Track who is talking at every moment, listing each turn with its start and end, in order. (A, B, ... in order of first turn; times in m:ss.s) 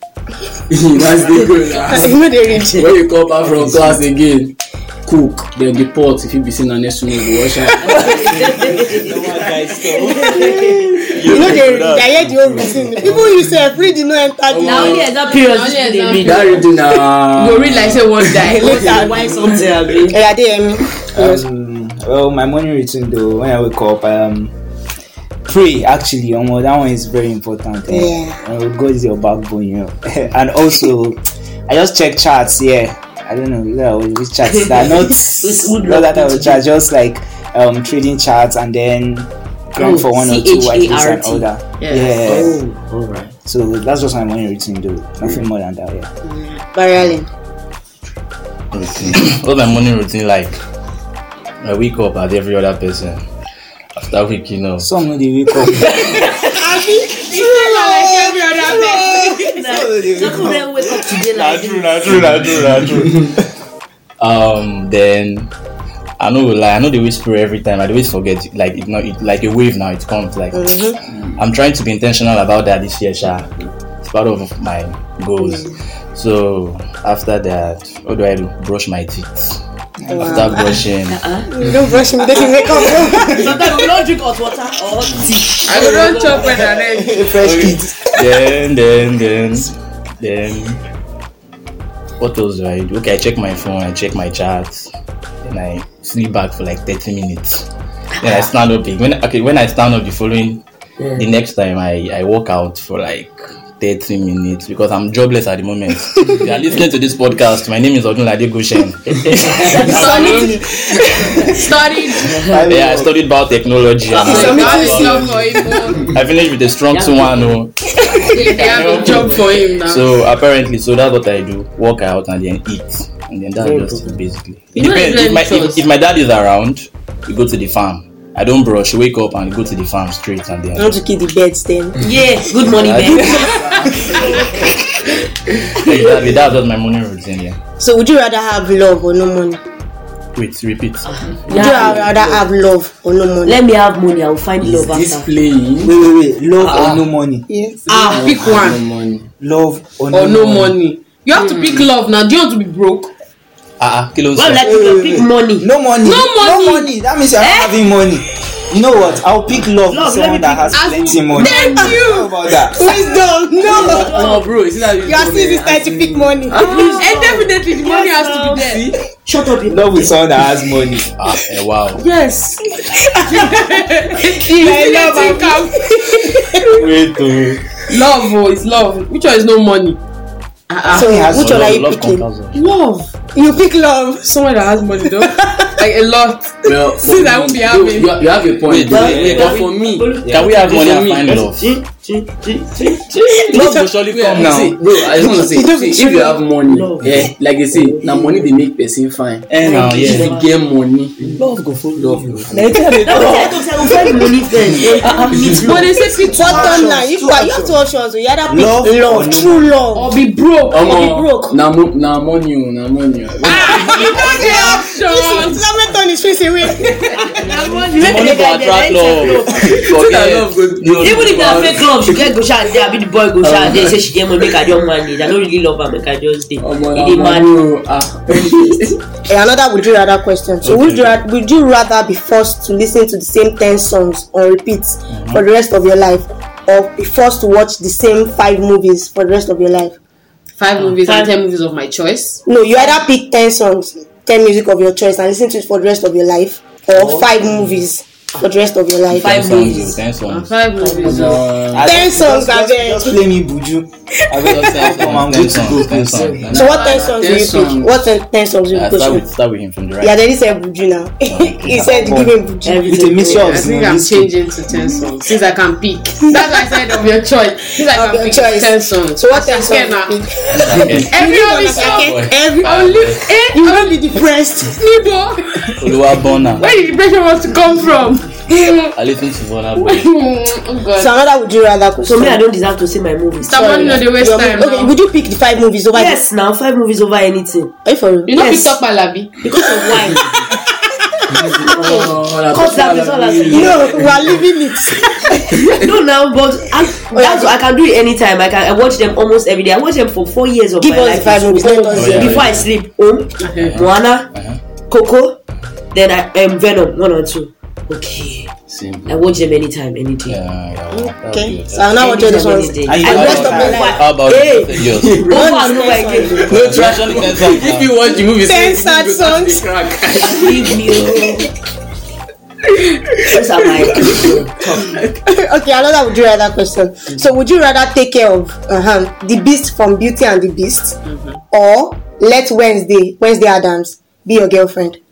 0:00.7-0:08.7 A
0:01.9-0:02.9 B
0:03.6-0:04.0 C
0:07.8-0:10.8 D
0:08.2-0:10.9 C
0:11.1-0:13.4 E
0:11.3-0:15.1 B
0:14.5-0:15.0 A
0:14.6-0:16.6 D
0:15.4-0:19.4 F
0:16.2-0:18.6 A
0:18.4-0:21.4 B
0:18.6-0:20.2 D
0:21.1-0:24.5 C
0:25.5-0:42.6 C
0:27.9-0:28.4 B
0:34.5-0:36.7 D
0:39.8-0:41.5 D
0:41.8-0:42.5 F
0:42.2-0:43.3 D
0:43.5-0:46.1 C
0:46.7-0:47.3 B
0:48.7-0:50.6 E
0:51.6-0:53.2 E
0:54.0-0:54.9 E
0:54.8-0:56.4 C
0:56.4-0:57.3 B
0:57.2-0:59.6 F
0:57.6-1:03.5 C
0:59.3-1:02.1 D
1:01.8-1:03.2 E
1:04.2-1:05.5 E
1:06.2-1:10.8 E
1:10.5-1:11.0 B
1:11.1-1:11.4 A
1:11.4-1:13.5 E
1:14.0-1:19.6 E
1:15.4-1:15.7 B
1:20.0-1:20.8 C
1:20.1-1:20.8 B
1:20.1-1:21.2 E
1:21.1-1:21.5 D
1:21.5-1:23.8 B
1:22.4-1:26.5 D
1:25.6-1:27.2 F
1:26.2-1:28.3 C
1:27.4-1:30.8 E
1:32.2-1:34.9 E
1:35.4-1:37.7 E
1:38.1-1:38.5 D
1:38.2-1:40.6 E
1:41.0-1:41.2 D
1:41.2-1:51.1 E
1:49.4-1:50.3 D
1:49.8-1:51.7 C
1:49.9-1:50.5 B
1:49.9-1:50.5 F
1:51.5-1:52.4 F
1:52.2-1:53.1 C
1:52.5-2:11.0 E
1:54.2-1:56.2 F
1:54.2-1:55.3 B
1:54.2-1:54.6 D
1:56.9-1:57.6 D
1:58.2-2:00.2 F
1:58.3-1:59.4 D
2:03.6-2:04.1 D
2:04.7-2:05.9 F
2:10.8-2:12.0 B
2:12.0-2:14.8 D
2:12.6-2:13.7 E
2:13.1-2:14.6 A
2:15.6-2:17.6 E
2:17.8-2:19.6 B
2:20.4-2:21.1 E
2:21.0-2:22.5 D
2:21.5-2:22.1 A
2:21.5-2:23.6 B
2:23.4-2:25.3 D
2:24.6-2:26.0 A
2:25.8-2:27.5 C
2:26.7-2:27.0 E
2:27.5-2:27.9 B
2:27.9-2:28.8 F
2:27.9-2:28.2 D
2:28.0-2:29.3 A
2:29.4-2:30.8 C
2:30.1-2:33.1 F
2:31.5-2:31.8 A
2:33.8-2:34.7 E
2:34.4-2:35.7 D
2:34.6-2:42.9 C
2:36.0-2:36.9 F
2:37.4-2:37.7 D
2:39.9-2:41.5 D
2:40.7-2:42.4 F
2:41.5-2:42.0 B
2:42.6-2:44.3 B
2:43.6-2:44.6 D
2:43.6-2:47.1 A
2:45.0-2:46.6 B
2:46.6-2:50.2 D
2:46.7-2:49.0 F
2:49.7-2:51.1 C
2:51.2-2:52.0 E
2:52.0-2:52.6 F
2:52.8-2:56.6 B
2:53.2-2:56.9 F
2:56.7-2:57.8 E
2:57.9-3:00.0 F
3:00.7-3:01.1 F
3:00.9-3:02.2 B
3:00.9-3:01.8 C
3:01.3-3:02.6 E
3:02.5-3:03.1 F
3:03.3-3:04.4 B
3:04.2-3:08.2 F
3:05.1-3:05.7 B
3:06.6-3:11.4 A
3:08.6-3:09.7 E
3:08.9-3:13.6 D
3:10.3-3:11.8 E
3:13.5-3:13.9 B
3:13.5-3:14.8 E
3:14.1-3:21.4 A
3:14.3-3:14.8 C
3:15.0-3:16.4 B
3:16.7-3:18.5 D
3:19.5-3:20.4 E
3:19.6-3:20.5 D
3:21.4-3:23.6 E
3:22.0-3:22.6 A
3:22.5-3:23.5 C
3:23.0-3:25.9 D
3:25.6-3:27.0 F
3:26.3-3:30.2 B
3:26.3-3:27.8 C
3:28.5-3:29.8 C
3:30.0-3:31.3 F
3:30.7-3:34.2 A
3:33.4-3:35.7 F
3:33.5-3:37.3 B
3:37.2-3:39.9 D
3:38.0-3:41.8 E
3:39.7-3:42.3 A
3:41.0-3:47.5 D
3:43.4-3:44.5 A
3:46.6-3:49.0 A
3:49.3-4:00.0 B
3:50.6-3:51.2 E
3:55.1-3:55.4 E
4:00.6-4:03.0 F
4:00.8-4:01.3 D
4:02.5-4:09.7 B
4:07.0-4:07.7 C
4:09.1-4:10.0 D
4:09.1-4:10.6 E
4:10.2-4:11.6 F
4:10.8-4:11.3 D
4:11.0-4:12.0 A
4:11.7-4:16.4 C
4:11.8-4:13.2 B
4:14.4-4:16.7 E
4:14.5-4:14.9 B
4:15.1-4:18.1 A
4:16.5-4:19.3 B
4:16.6-4:17.1 F
4:18.7-4:20.2 E
4:20.0-4:23.0 B
4:21.3-4:21.9 E
4:21.7-4:24.3 C
4:22.6-4:23.7 D
4:23.3-4:30.2 F
4:26.3-4:26.8 B
4:27.8-4:32.9 B
4:30.5-4:31.2 E
4:30.9-4:34.0 F
4:31.7-4:33.3 E
4:33.5-4:34.8 B
4:34.6-4:35.8 F
4:35.8-4:36.7 E
4:36.6-4:38.9 F
4:38.9-4:40.1 E
4:39.8-4:41.2 F
4:41.0-4:42.4 B
4:42.1-4:44.1 D
4:43.4-4:44.9 F
4:43.6-4:46.2 B
4:45.9-4:47.7 D
4:47.8-4:48.5 B
4:48.3-4:49.4 F
4:48.4-4:48.8 D
4:49.4-4:50.3 D
4:51.3-4:54.4 A
4:51.6-4:54.2 D
4:53.5-4:55.4 B
4:55.3-5:04.3 D
4:57.1-4:57.6 B
5:00.8-5:02.6 B
5:02.0-5:02.6 E
5:03.4-5:03.8 F
5:03.6-5:04.6 E
5:04.9-5:05.4 D
5:05.9-5:08.5 D
5:08.7-5:09.3 A
5:09.1-5:10.4 D
5:10.3-5:12.0 E
5:10.9-5:14.0 B
5:12.0-5:16.5 D
5:12.9-5:13.9 C
5:13.0-5:15.3 E
5:14.8-5:15.5 A
5:15.3-5:16.8 B
5:16.4-5:21.1 A
5:16.5-5:18.0 E
5:18.3-5:19.6 B
5:20.2-5:21.5 D
5:22.8-5:25.2 A
5:23.2-5:25.0 D
5:25.3-5:31.0 B
5:31.0-5:31.4 F
5:31.5-5:35.0 B